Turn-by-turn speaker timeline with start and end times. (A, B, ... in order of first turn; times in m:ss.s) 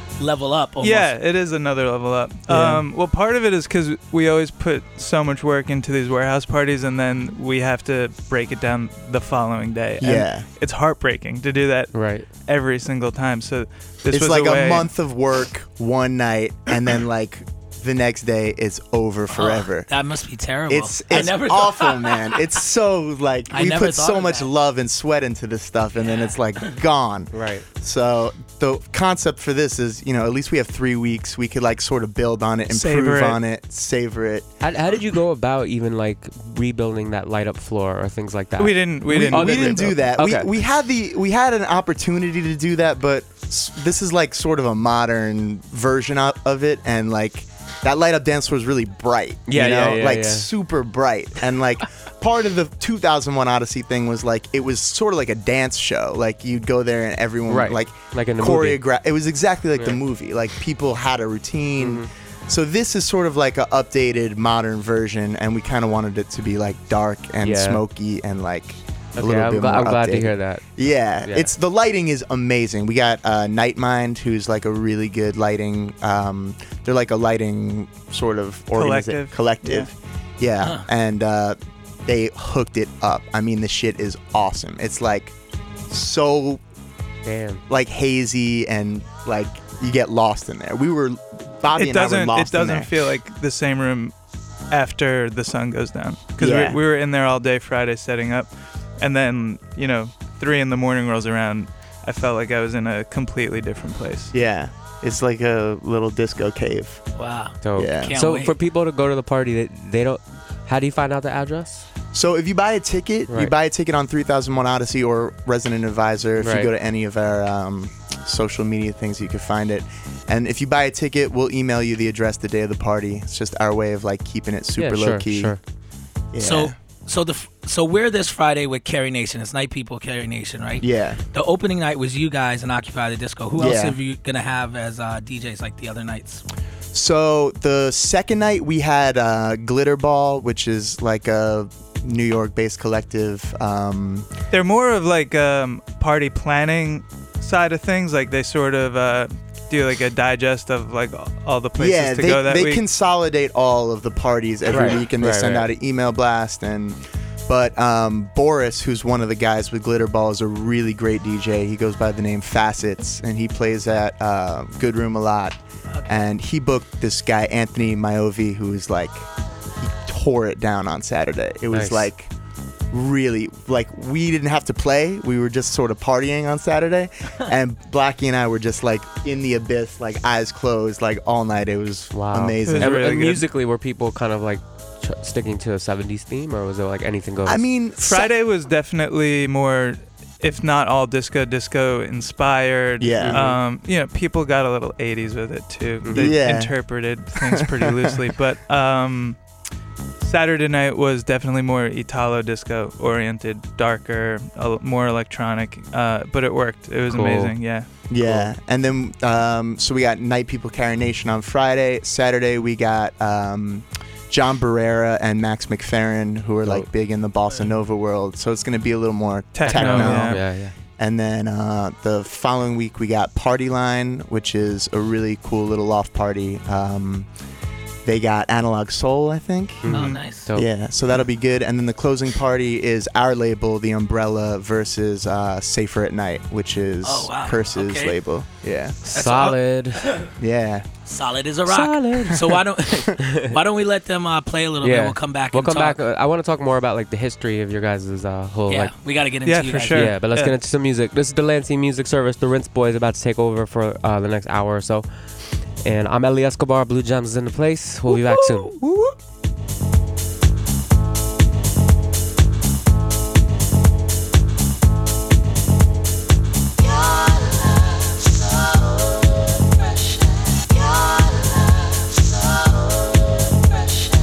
0:00.2-0:01.2 A
0:00.8-0:14.9 B
0:02.5-0:02.8 C
0:10.0-0:10.5 D
0:11.9-0:12.3 C
0:14.1-0:19.9 D
0:19.4-0:22.4 A
0:20.7-0:34.5 D
0:23.5-0:24.5 A
0:26.0-0:26.3 A
0:27.3-0:27.6 C
0:32.7-0:33.4 B
0:34.6-0:40.5 C
0:38.6-0:39.9 B
0:39.1-1:25.4 D
0:49.5-0:50.5 C
0:57.5-0:58.8 C
1:01.8-1:02.1 C
1:07.4-1:07.8 C
1:09.2-1:10.7 C
1:11.2-1:11.5 C
1:18.7-1:19.9 B
1:20.6-1:20.9 A
1:25.9-1:26.6 D
1:27.2-1:27.6 C
1:27.7-1:32.9 D
1:31.7-1:34.2 B
1:34.7-1:44.3 B
1:36.4-1:36.8 D
1:44.3-1:47.1 D
1:47.2-1:48.6 A
1:47.6-1:51.9 C
1:47.8-1:48.2 D
1:52.1-2:05.6 D
1:56.4-1:56.7 C
2:04.8-2:05.6 C
2:06.3-2:06.8 D
2:06.4-2:16.4 A
2:10.8-2:11.2 D
2:13.6-2:14.0 D
2:16.9-2:24.3 D
2:24.5-2:32.8 B
2:31.8-2:49.3 D
2:34.7-2:35.7 C
2:49.8-2:52.3 D
2:51.7-2:52.1 C
2:52.9-3:03.0 D
3:02.1-3:07.6 C
3:02.7-3:03.5 B
3:07.4-3:08.3 D
3:08.0-3:19.5 B
3:13.0-3:13.6 D
3:13.2-3:13.6 C
3:16.0-3:16.4 C
3:16.1-3:18.0 D
3:20.2-3:27.9 B
3:27.1-3:27.5 C
3:28.1-3:47.3 D
3:28.2-3:28.5 C
3:39.6-3:40.4 B
3:39.7-3:40.7 C
3:48.0-3:59.0 D
3:49.8-3:50.7 C
3:49.9-3:50.2 B
3:49.9-3:50.5 A
3:57.0-3:58.2 A
3:59.0-4:00.2 C
3:59.1-4:00.3 A
4:00.4-4:00.9 D
4:01.1-4:06.0 A
4:01.7-4:02.4 C
4:03.2-4:03.6 C
4:04.8-4:09.0 C
4:08.7-4:10.1 A
4:09.4-4:10.6 B
4:09.9-4:18.7 C
4:18.1-4:19.1 D